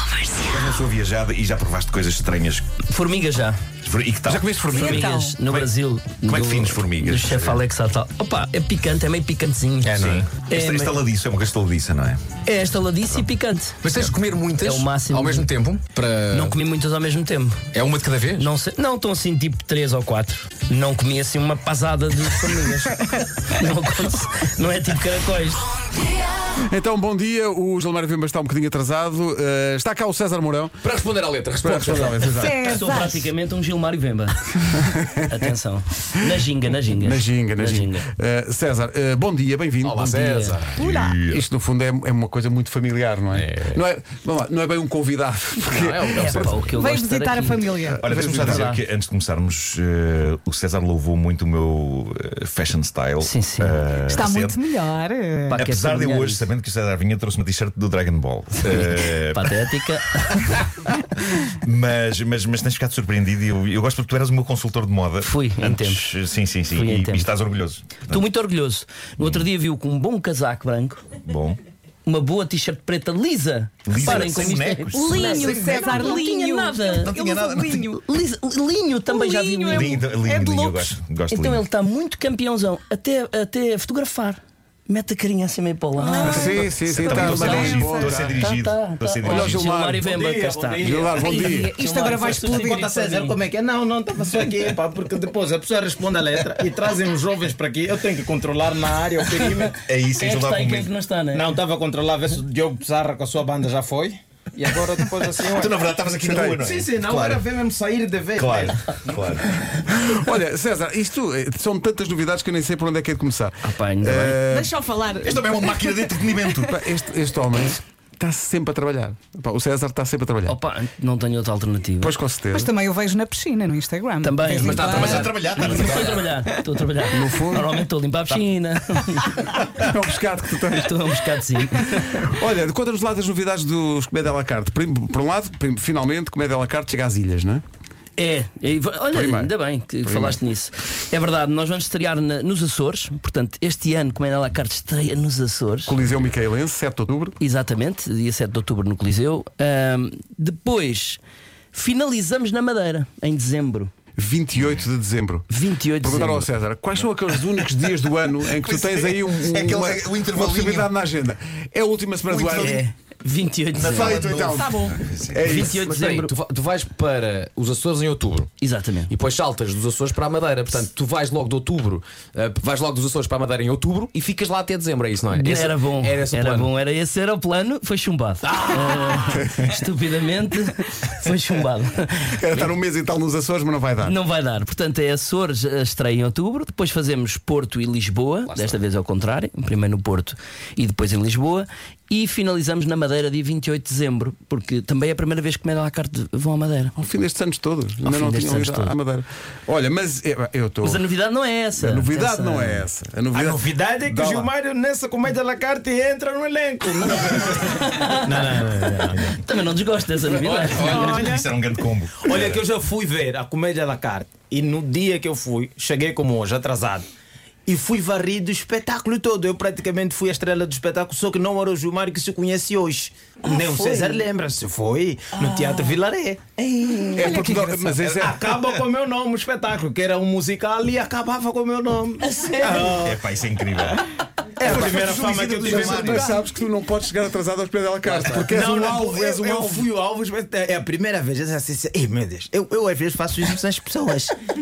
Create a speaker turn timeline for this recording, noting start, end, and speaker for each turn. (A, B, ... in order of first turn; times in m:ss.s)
0:00.4-0:02.7 A
0:02.9-0:03.6 B
0:03.8-0:04.5 A
0:04.3-0:05.1 C
0:04.7-0:09.9 B
0:04.7-0:05.4 D
0:05.4-0:05.7 A
0:06.2-0:07.6 A
0:09.8-0:10.3 E
0:09.9-0:13.2 A
0:10.5-0:11.0 B
0:12.5-0:13.8 B
0:13.8-0:16.6 E
0:14.6-0:15.5 B
0:16.3-0:17.6 B
0:17.7-0:18.5 E
0:18.4-0:25.6 B
0:26.7-0:30.8 C
0:30.8-0:32.6 E
0:31.6-0:32.8 C
0:32.4-0:33.2 D
0:32.7-0:34.4 B
0:34.9-0:35.5 C
0:35.2-0:38.1 B
0:37.0-0:40.3 C
0:39.8-0:40.8 E
0:40.2-0:40.6 B
0:40.8-0:41.4 A
0:40.8-0:41.2 D
0:41.3-0:46.7 C
0:43.3-0:43.8 E
0:45.6-0:46.7 E
0:46.1-0:48.8 B
0:46.7-0:48.0 D
0:48.0-0:48.7 C
0:48.0-0:54.6 A
0:53.2-0:53.8 B
0:54.0-0:55.6 D
0:55.5-0:56.5 B
0:55.6-0:59.5 A
0:58.7-1:00.5 B
1:00.3-1:08.2 A
1:05.2-1:06.1 B
1:06.7-1:07.3 B
1:08.1-1:11.0 B
1:09.2-1:09.5 A
1:11.2-1:11.6 A
1:12.0-1:17.1 B
1:13.9-1:16.2 A
1:14.2-1:18.0 D
1:16.9-1:18.0 A
1:18.0-1:20.1 B
1:19.1-1:21.0 D
1:19.7-1:21.6 A
1:21.3-1:33.4 B
1:26.0-1:26.5 D
1:26.3-1:28.4 C
1:26.9-1:30.1 A
1:27.2-1:28.0 D
1:29.2-1:30.1 C
1:30.1-1:31.4 E
1:30.2-1:30.9 F
1:30.8-1:31.7 C
1:31.2-1:32.9 D
1:32.4-1:39.8 F
1:39.8-1:40.9 A
1:40.2-1:41.5 B
1:41.3-1:45.8 F
1:45.4-1:47.5 A
1:46.2-1:46.6 C
1:46.6-1:49.2 F
1:48.4-1:49.4 A
1:49.9-1:54.7 C
1:53.6-1:54.4 B
1:54.5-1:56.1 D
1:55.2-1:56.8 A
1:56.6-2:00.6 C
2:00.5-2:02.1 B
2:02.0-2:02.7 C
2:02.5-2:05.1 D
2:04.2-2:09.3 B
2:04.6-2:06.1 E
2:04.6-2:06.3 A
2:07.1-2:07.8 C
2:09.8-2:10.9 C
2:10.7-2:12.2 B
2:12.0-2:17.6 C
2:18.2-2:26.0 B
2:19.1-2:20.4 C
2:25.9-2:27.4 C
2:27.4-2:31.2 B
2:31.7-2:33.9 B
2:34.2-2:35.5 C
2:34.6-2:34.8 A
2:35.5-2:36.5 B
2:36.0-2:42.8 C
2:38.6-2:40.9 A
2:42.3-2:42.8 A
2:42.6-2:44.2 B
2:43.7-2:45.6 A
2:43.8-2:46.3 C
2:44.5-2:45.0 D
2:45.4-2:46.3 B
2:45.6-2:48.5 E
2:48.6-2:49.1 B
2:49.1-2:56.7 E
2:55.3-3:02.7 B
3:02.4-3:04.2 C
3:04.0-3:16.9 B
3:08.5-3:08.8 E
3:17.0-3:21.1 C
3:18.0-3:19.0 B
3:20.8-3:22.9 B
3:21.8-3:24.5 C
3:23.3-3:29.4 F
3:27.8-3:28.2 B
3:29.4-3:31.2 B
3:30.2-3:30.8 E
3:30.7-3:31.1 F
3:30.8-3:32.6 A
3:31.1-3:31.4 D
3:32.2-3:37.1 F
3:37.7-3:46.4 F
3:43.4-3:44.2 B
3:45.4-3:46.0 B
3:46.6-3:47.6 B
3:47.2-3:48.5 C
3:47.2-3:53.2 F
3:52.2-3:53.0 B
3:53.0-3:54.0 A
3:54.6-3:56.4 F
3:54.6-3:59.9 C
3:54.9-3:56.3 A
3:58.0-3:58.4 E
3:58.5-4:04.4 F